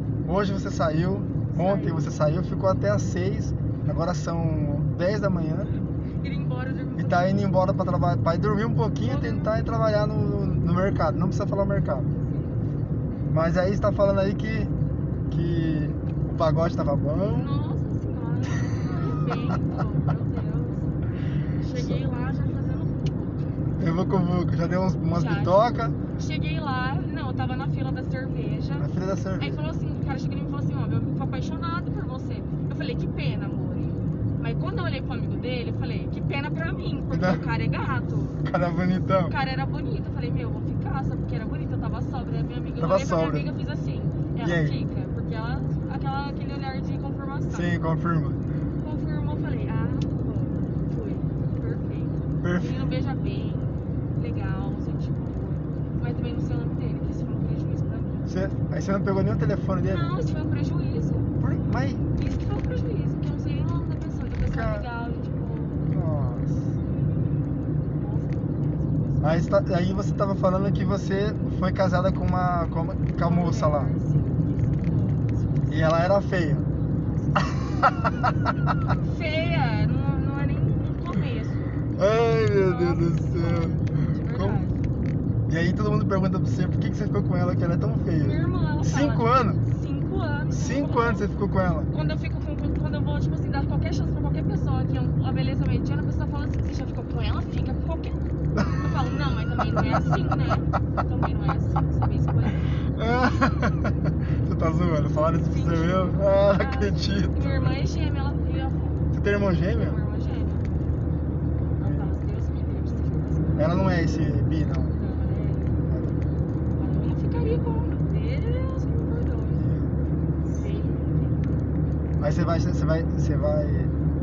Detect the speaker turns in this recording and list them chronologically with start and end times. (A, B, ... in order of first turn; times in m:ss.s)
0:00.2-0:05.7 A
0:01.5-0:02.1 B
0:06.2-0:07.4 B
0:07.0-0:12.1 A
0:09.0-0:09.6 B
0:12.2-0:12.6 B
0:13.3-0:14.7 A
0:15.3-0:17.5 A
0:17.3-0:20.9 B
0:21.6-0:23.5 B
0:21.7-0:22.0 A
0:23.8-0:26.0 A
0:25.0-0:28.9 B
0:28.8-0:29.6 A
0:29.4-0:38.4 B
0:37.1-0:37.4 A
0:38.4-0:39.3 A
0:39.2-0:47.7 B
0:42.8-0:43.5 A
0:44.4-0:44.8 A
0:47.5-0:48.4 A
0:48.8-0:58.2 B
0:52.4-0:52.8 A
0:58.2-1:00.3 A
0:59.8-1:01.3 B
1:01.4-1:02.0 A
1:02.1-1:05.9 B
1:04.5-1:04.9 A
1:05.9-1:06.7 A
1:07.9-1:09.5 B
1:09.2-1:13.9 A
1:13.2-1:16.3 B
1:15.7-1:16.7 A
1:16.9-1:18.0 B
1:17.6-1:18.3 A
1:19.0-1:21.8 B
1:22.0-1:24.6 A
1:22.5-1:24.9 B
1:25.5-1:29.6 A
1:28.2-1:31.3 B
1:30.5-1:31.9 A
1:31.9-1:42.6 B
1:38.5-1:38.8 A
1:39.7-1:40.4 A
1:42.7-1:47.8 A
1:45.2-1:49.1 B
1:49.1-1:50.0 A
1:49.6-1:50.7 B
1:51.8-1:54.0 B
1:51.8-1:52.1 A
1:53.6-1:54.9 A
1:54.9-1:55.8 B
1:55.9-1:56.2 A
1:56.7-1:59.7 B
1:59.5-2:00.5 A
2:00.4-2:01.5 B
2:02.2-2:03.9 A